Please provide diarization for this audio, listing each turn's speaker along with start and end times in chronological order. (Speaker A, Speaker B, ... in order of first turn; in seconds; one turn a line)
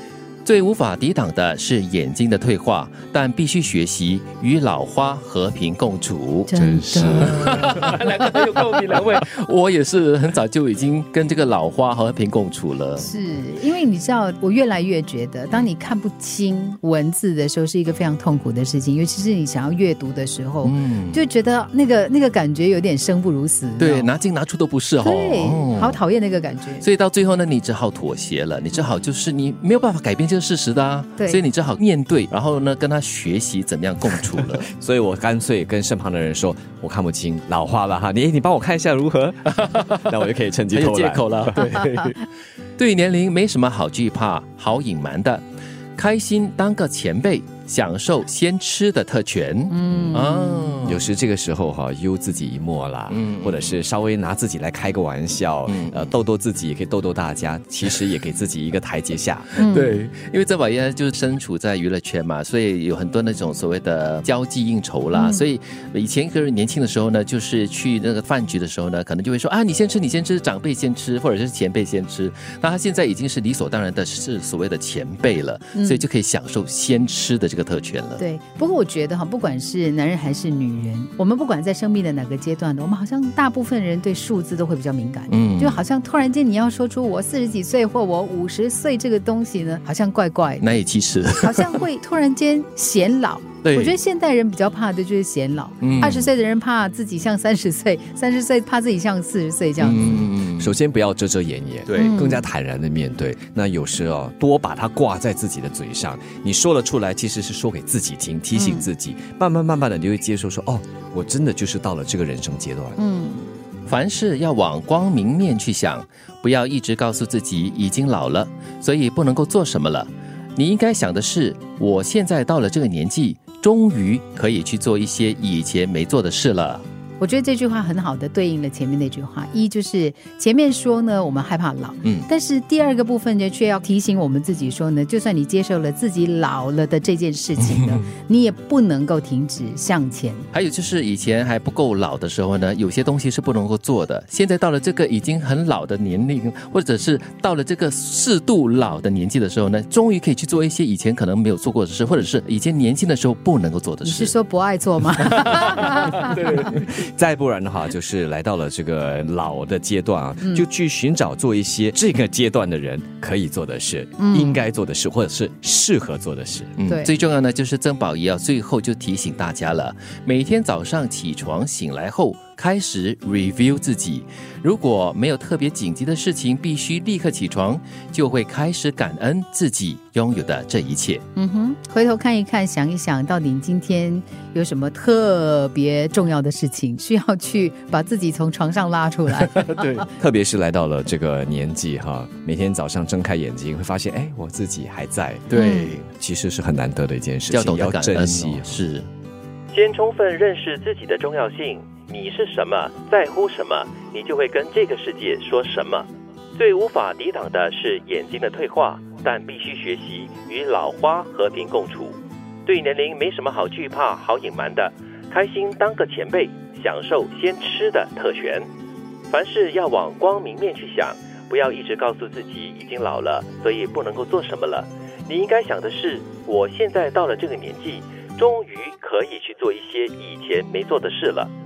Speaker A: 0.5-6.5
Speaker B: 6.5-7.8
Speaker C: 6.5-7.9
Speaker A: 7.1-13.1
Speaker B: 13.0-24.1
Speaker A: 20.6-21.2
Speaker A: 23.8-26.0
Speaker B: 25.0-26.9
Speaker A: 26.8-34.7
Speaker C: 34.4-41.6
Speaker A: 40.7-42.2
Speaker B: 41.6-42.1
Speaker A: 42.8-45.4
Speaker A: 46.0-51.0
Speaker B: 49.7-50.9
Speaker C: 50.9-59.5
Speaker A: 53.1-53.7
Speaker A: 55.7-56.1
Speaker B: 59.6-60.0
Speaker A: 59.6-78.2
Speaker B: 65.1-65.4
Speaker B: 75.7-76.0
Speaker B: 78.2-90.7
Speaker A: 85.3-85.8
Speaker A: 90.6-91.8
Speaker B: 91.4-100.3
Speaker A: 93.6-94.0
Speaker A: 95.8-96.3
Speaker A: 99.8-100.8
Speaker C: 100.6-113.0
Speaker A: 101.9-102.2
Speaker B: 102.0-102.5
Speaker B: 108.5-108.9
Speaker B: 113.0-113.5
Speaker A: 113.9-126.8
Speaker B: 127.2-140.5
Speaker A: 137.6-138.0
Speaker A: 140.5-154.3
Speaker B: 154.0-156.6
Speaker A: 155.4-156.5
Speaker C: 156.1-166.7
Speaker B: 164.2-164.6
Speaker A: 166.8-181.2
Speaker B: 181.4-190.1
Speaker A: 189.7-190.1
Speaker C: 190.2-195.5
Speaker A: 195.5-196.1
Speaker B: 195.5-195.9
Speaker C: 196.2-198.8
Speaker A: 197.5-199.1
Speaker A: 199.7-218.7
Speaker A: 219.3-231.5